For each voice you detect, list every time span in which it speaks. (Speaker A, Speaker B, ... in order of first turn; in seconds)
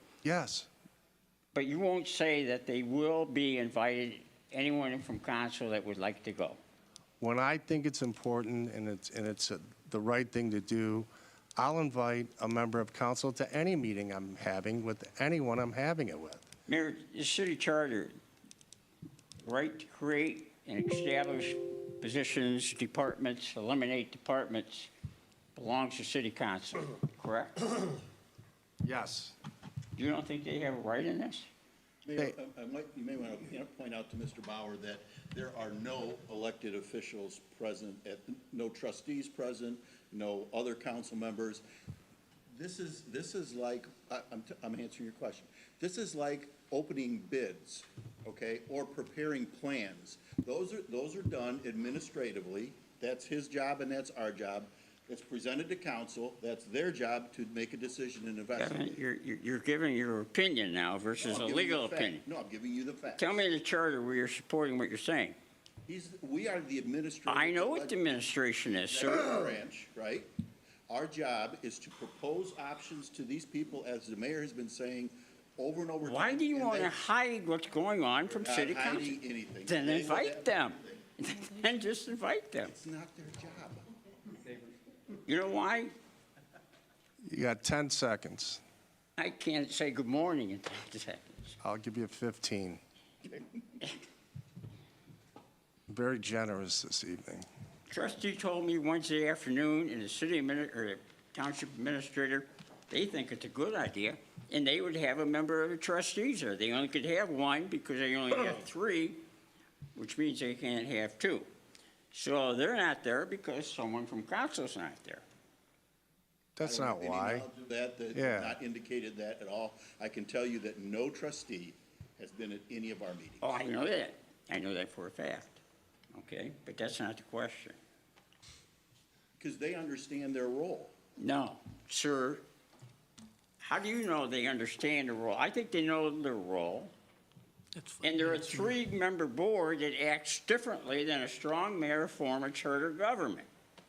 Speaker A: 0.2-0.7, 7.2-16.5, 28.8-29.4, 87.2-88.6, 91.6-92.8, 95.9-97.5, 116.5-117.5, 118.1-118.5
Speaker B: 1.5-6.6, 16.7-18.1, 19.4-24.9, 25.5-27.6, 29.9-31.5, 58.6-62.2, 63.2-65.4, 67.3-69.3, 76.0-82.7, 85.2-85.9, 89.2-91.6, 97.9-109.2, 109.9-111.5, 112.1-115.2, 123.4-125.6, 126.1-127.8, 131.2-132.4, 133.6-136.9, 138.0-143.5
Speaker C: 32.0-41.6, 42.5-59.0, 61.2-63.4, 65.9-68.0, 68.8-70.3, 70.9-77.0, 78.3-81.0, 82.6-83.8, 116.6-123.5, 129.4-130.9